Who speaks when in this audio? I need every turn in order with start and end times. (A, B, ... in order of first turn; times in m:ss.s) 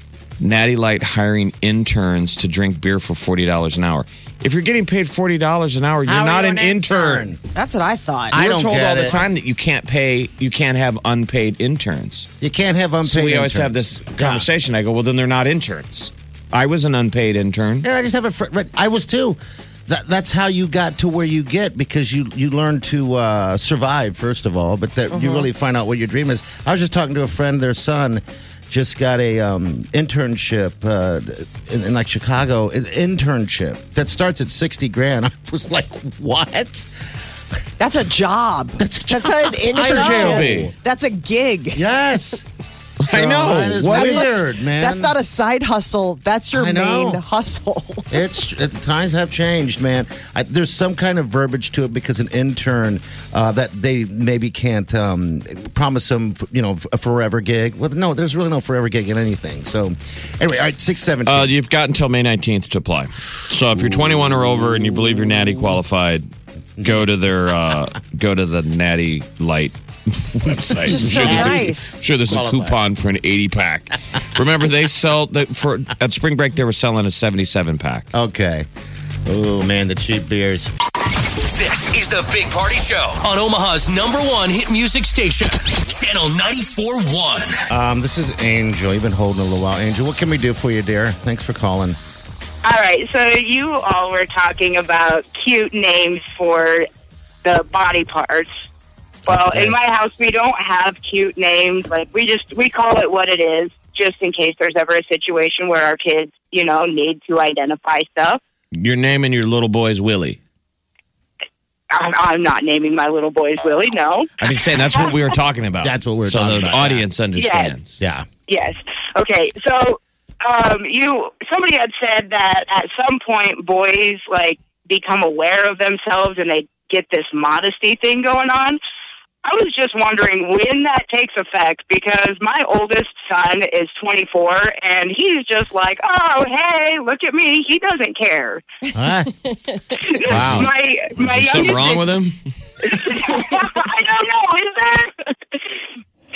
0:00.4-0:07.2 A
0:06.0-0:07.4 B
0:07.5-0:08.4 C
0:08.3-0:09.2 B
0:08.3-0:12.3 A
0:12.4-0:14.5 B
0:13.0-0:17.8 A
0:17.8-0:36.9 B
0:25.1-0:25.5 C
0:37.8-0:41.9 C
0:38.8-0:40.7 B
0:39.8-0:40.7 A
0:41.7-0:42.4 B
0:43.0-0:44.4 A
0:43.1-0:45.2 B
0:43.8-0:48.2 C
0:46.5-0:47.2 B
0:48.1-1:01.5 B
1:01.2-1:06.3 A
1:03.7-1:05.5 B
1:06.8-1:18.1 A
1:10.8-1:12.0 C
1:10.8-1:11.7 B
1:12.2-1:12.8 B
1:18.1-1:18.7 B
1:19.2-1:20.7 B
1:21.4-1:27.6 D
1:27.7-1:32.0 B
1:32.6-1:36.9 E
1:37.4-1:38.5 E
1:39.2-1:48.4 E
1:39.4-1:39.7 B
1:48.7-1:50.4 A
1:51.9-1:54.3 E
1:54.4-1:58.0 A
1:55.8-1:57.1 B
1:57.3-1:57.7 E
1:58.0-1:58.2 B
1:58.5-2:08.8 E
2:09.4-2:18.6 E
2:18.9-2:19.3 B
2:19.4-2:19.9 C
2:20.0-2:22.1 E
2:20.2-2:22.4 A
2:20.3-2:20.7 B
2:22.8-2:25.8 E